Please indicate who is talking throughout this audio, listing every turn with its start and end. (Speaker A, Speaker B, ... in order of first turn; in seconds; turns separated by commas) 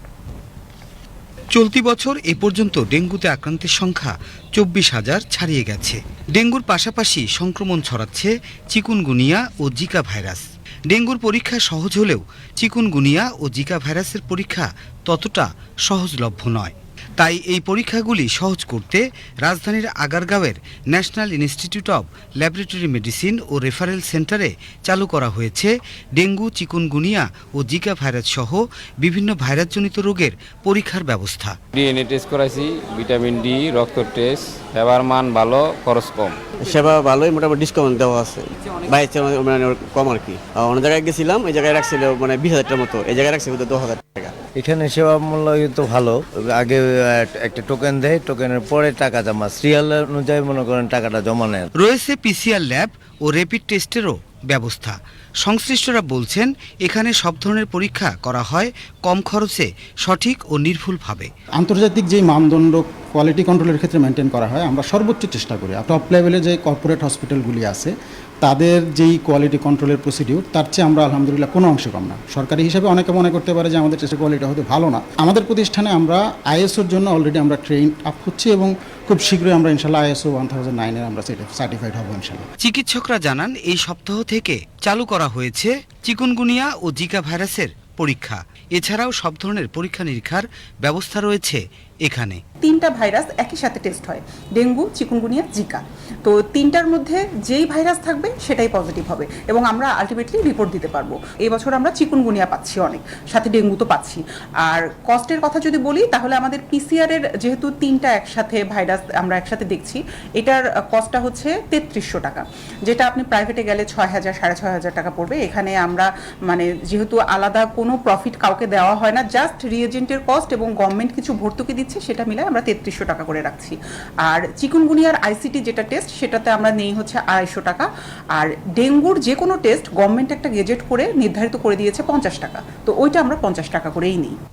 Speaker A: 1.5-31.6, Speaker B: 31.7-36.4, Speaker C: 36.6-44.4, Speaker D: 44.6-51.7, Speaker A: 51.8-61.3, Speaker E: 61.6-82.5, Speaker A: 82.6-92.4, Speaker F: 92.6-134.3